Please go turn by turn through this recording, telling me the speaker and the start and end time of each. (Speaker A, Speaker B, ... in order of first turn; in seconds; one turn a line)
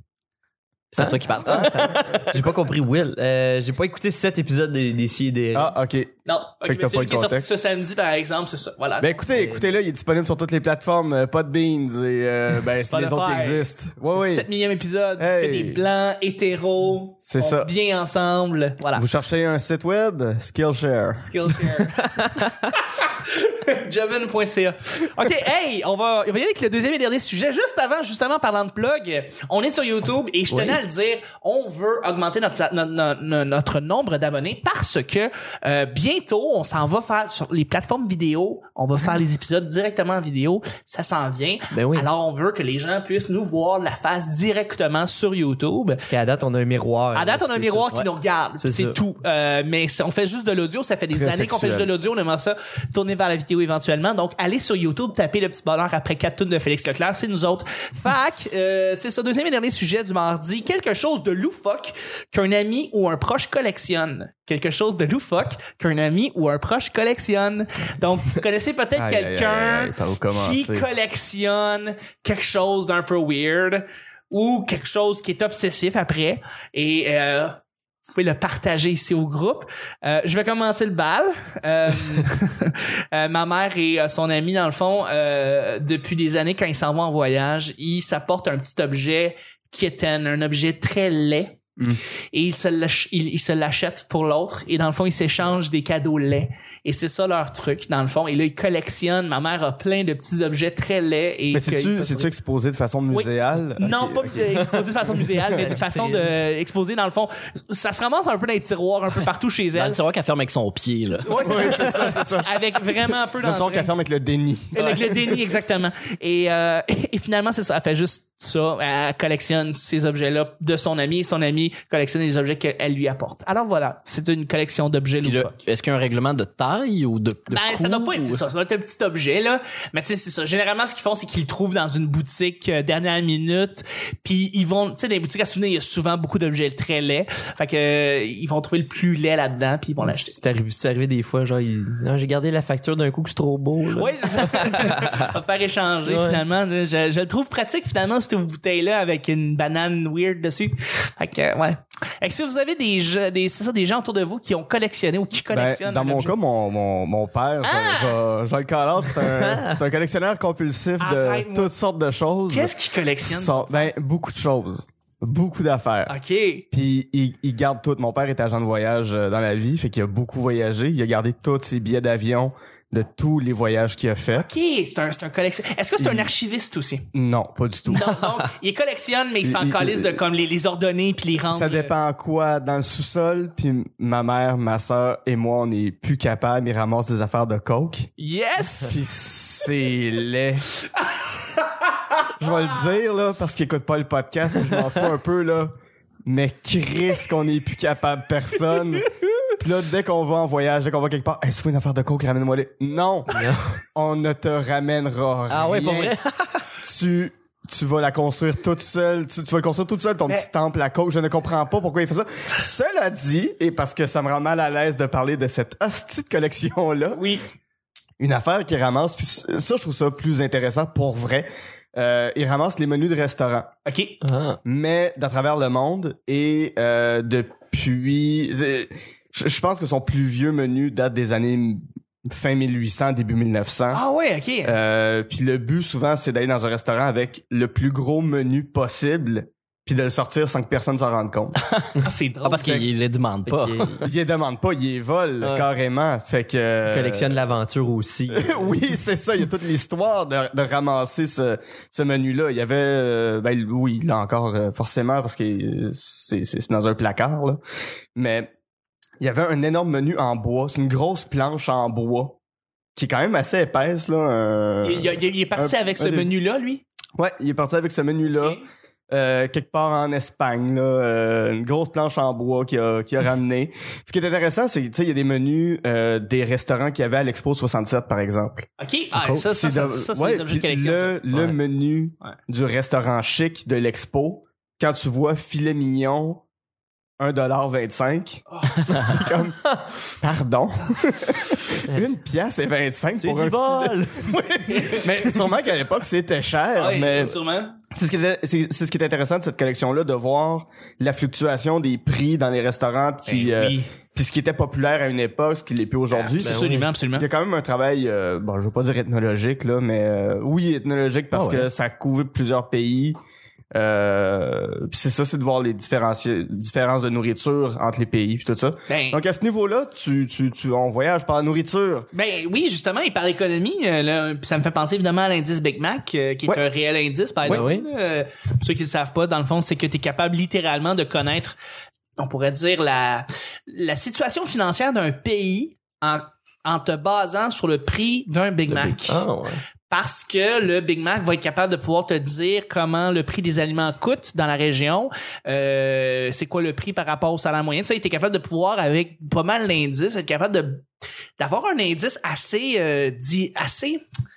Speaker A: 0.9-2.4
Speaker B: 0.9-5.8
Speaker C: 1.4-2.1
Speaker C: 5.5-7.5
Speaker D: 6.3-9.2
Speaker C: 9.0-14.5
Speaker B: 9.3-9.7
Speaker D: 12.9-19.1
Speaker C: 15.2-15.8
Speaker C: 17.2-17.7
Speaker C: 18.9-21.6
Speaker D: 21.2-46.0
Speaker B: 30.5-30.8
Speaker B: 41.7-42.1
Speaker B: 46.0-47.9
Speaker D: 47.1-91.7
Speaker B: 48.6-49.0
Speaker C: 51.1-51.9
Speaker C: 69.0-70.9
Speaker D: 92.3-102.3
Speaker C: 101.5-104.6
Speaker D: 103.1-110.0
Speaker B: 105.5-106.3
Speaker A: 109.7-111.8
Speaker D: 111.2-113.9
Speaker C: 111.4-112.8
Speaker C: 113.4-115.4
Speaker D: 114.7-125.6
Speaker A: 125.2-128.4
Speaker D: 127.5-140.3
Speaker B: 140.0-145.3
Speaker D: 143.9-156.3
Speaker B: 146.0-146.4
Speaker C: 155.5-166.1
Speaker D: 157.6-158.1
Speaker B: 159.2-159.8
Speaker D: 161.0-161.7
Speaker D: 162.5-163.9
Speaker D: 166.1-166.7
Speaker C: 166.7-174.5
Speaker D: 174.3-177.1
Speaker C: 176.0-176.3
Speaker C: 177.1-178.2
Speaker D: 177.9-181.9
Speaker C: 179.4-180.2
Speaker C: 181.5-188.1
Speaker D: 188.2-189.0
Speaker C: 188.8-190.7
Speaker C: 192.4-195.7
Speaker C: 196.2-206.1
Speaker B: 203.3-203.7
Speaker A: 205.5-206.7
Speaker C: 206.8-217.2
Speaker D: 217.1-217.4
Speaker C: 218.2-223.7
Speaker D: 223.8-224.2
Speaker B: 224.2-224.6
Speaker C: 224.6-234.0
Speaker D: 233.9-234.7
Speaker C: 234.6-241.6
Speaker A: 241.6-241.9
Speaker D: 242.0-242.9
Speaker A: 242.4-244.1
Speaker B: 243.5-244.0
Speaker C: 244.0-247.4
Speaker B: 246.8-248.8
Speaker C: 248.3-257.6
Speaker C: 258.1-258.5
Speaker C: 259.2-262.4
Speaker C: 262.9-266.3
Speaker D: 264.8-266.8
Speaker C: 267.1-278.7
Speaker D: 268.2-268.6
Speaker D: 278.8-281.2
Speaker A: 279.1-279.4
Speaker C: 279.5-286.4
Speaker C: 287.2-297.4
Speaker D: 288.5-288.9
Speaker B: 291.8-292.1
Speaker B: 293.2-295.4
Speaker D: 294.7-295.1
Speaker D: 296.8-297.8
Speaker C: 297.9-313.2
Speaker D: 303.2-303.9
Speaker D: 306.1-307.3
Speaker B: 306.4-306.9
Speaker A: 311.3-311.7
Speaker C: 313.7-322.1
Speaker D: 318.9-319.2
Speaker D: 322.1-331.6
Speaker B: 327.4-327.8
Speaker D: 332.2-339.2
Speaker B: 338.7-339.6
Speaker D: 339.9-350.9
Speaker D: 351.4-354.0